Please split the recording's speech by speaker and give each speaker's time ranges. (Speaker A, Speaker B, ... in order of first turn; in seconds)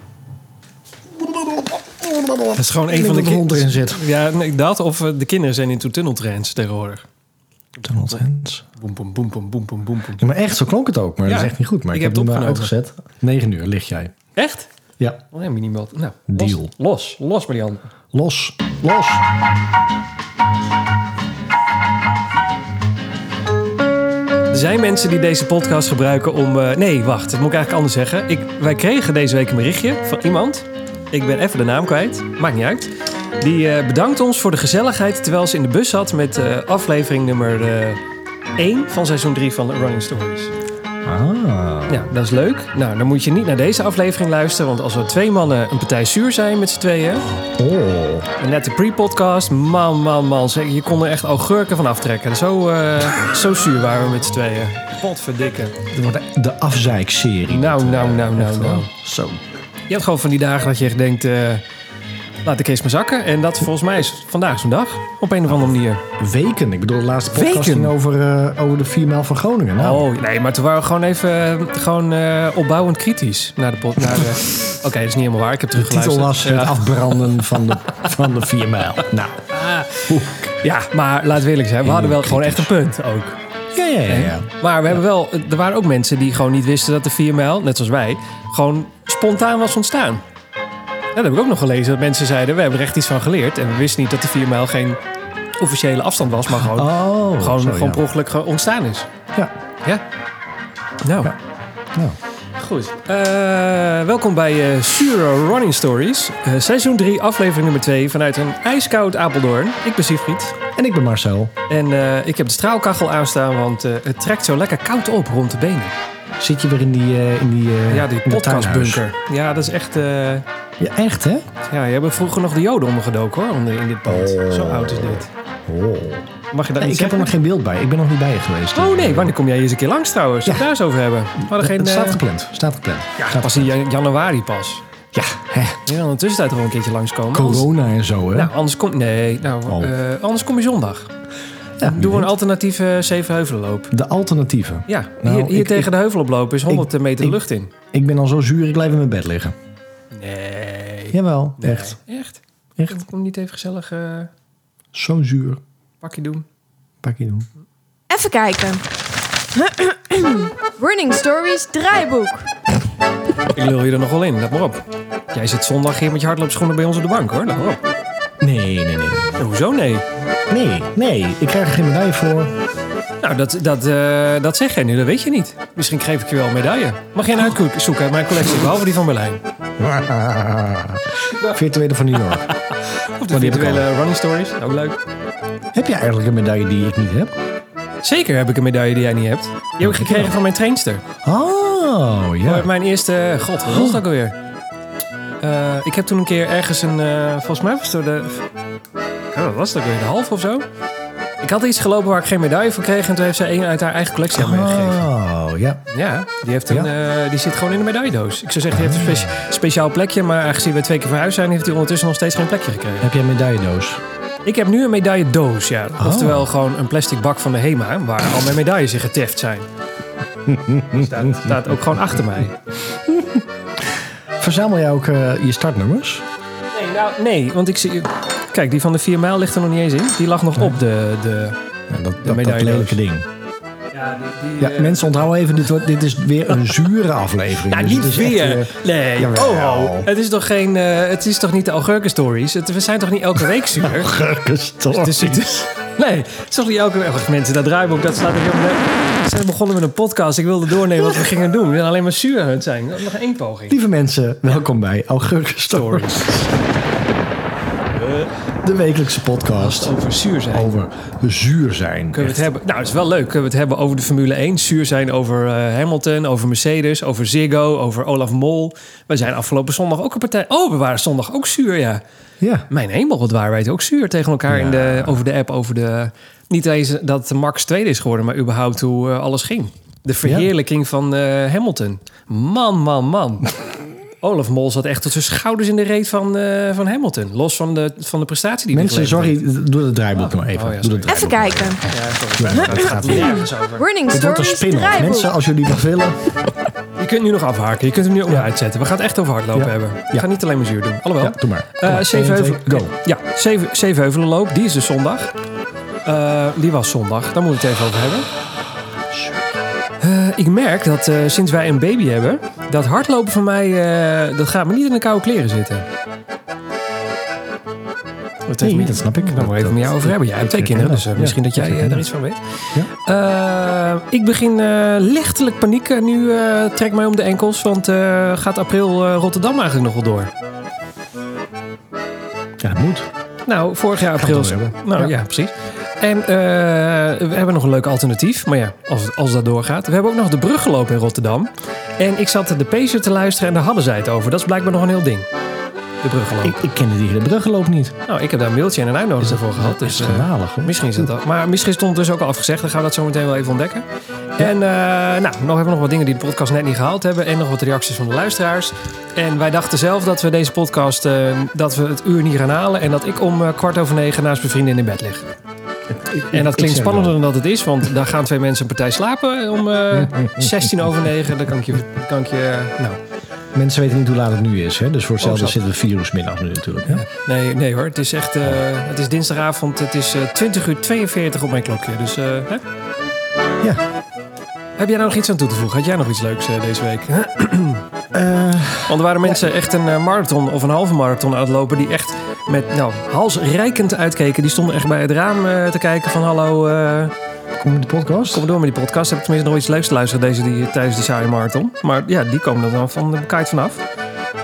Speaker A: 1.2-4.1, 7.8-8.7, 10.2-14.2, 16.3-16.7, 18.1-19.3, 41.0-42.1, 47.3-48.3, 55.9-59.4, 66.2-70.1, 75.8-80.7, 81.8-82.7, 83.7-84.5, 96.5-98.0, 110.8-111.5, 116.4-119.0, 120.8-121.5, 124.1-126.3, 126.8-129.3, 131.4-133.7, 135.1-135.8, 137.3-138.5, 139.7-139.9, 141.8-142.3, 143.9-145.9, 146.7-147.4, 147.9-149.6, 151.1-152.0, 152.8-153.0, 154.9-155.6, 157.0-157.5, 168.4-169.4, 170.5-172.5, 179.8-182.5, 183.3-183.9, 185.7-187.3, 189.8-190.3, 191.2-192.7, 193.7-194.0, 204.3-205.8, 208.7-209.4, 213.0-214.0, 216.0-216.5, 220.4-221.6, 223.1-223.9, 224.4-226.2, 231.9-233.3, 234.6-240.1, 243.8-245.5, 253.7-256.3, 258.6-259.9, 260.5-262.5, 272.4-272.7, 274.5-275.2, 288.7-293.4, 294.1-296.4, 299.5-300.3, 301.2-302.9, 318.6-322.1, 332.6-333.1, 334.1-335.1, 346.4-348.0, 349.2-351.1, 365.9-367.2, 370.2-370.7, 373.5-377.1, 388.1-389.4, 397.6-398.5
Speaker B: 2.5-7.0, 8.8-10.2, 11.3-12.7, 14.4-14.7, 15.3-17.9, 24.5-38.0, 38.6-40.5, 41.9-47.3, 48.4-55.8, 57.5-58.9, 59.9-61.6, 62.4-66.0, 67.3-68.0, 69.8-77.0, 79.5-83.4, 84.1-90.2, 91.2-95.0, 95.6-99.1, 101.0-101.3, 102.6-110.6, 111.7-116.0, 117.9-120.5, 121.6-125.3, 126.5-127.3, 128.8-132.2, 133.2-134.8, 135.9-137.7, 138.3-141.1, 141.8-143.9, 144.9-147.7, 150.1-154.3, 156.0-156.5, 163.5-164.8, 165.3-167.8, 169.4-170.1, 173.2-179.4, 182.3-185.0, 188.0-191.0, 192.4-194.4, 195.4-198.5, 199.3-200.7, 201.4-205.0, 205.9-213.1, 214.4-219.7, 220.9-222.6, 226.7-231.6, 232.2-233.0, 233.9-235.3, 237.7-244.1, 244.9-253.8, 255.7-256.5, 259.6-260.8, 262.1-272.0, 272.7-283.6, 284.2-289.4, 290.1-291.2, 291.8-293.9, 297.0-305.3, 306.1-308.3, 310.0-315.9, 318.5-330.3, 333.5-345.3, 346.0-346.6, 348.1-353.9, 354.4-365.3, 366.3-373.0, 375.2-375.6, 376.9-382.6, 384.8-387.8, 388.9-397.1, 398.3-403.8
Speaker C: 158.1-158.8, 159.5-162.5, 291.1-291.8, 292.5-295.3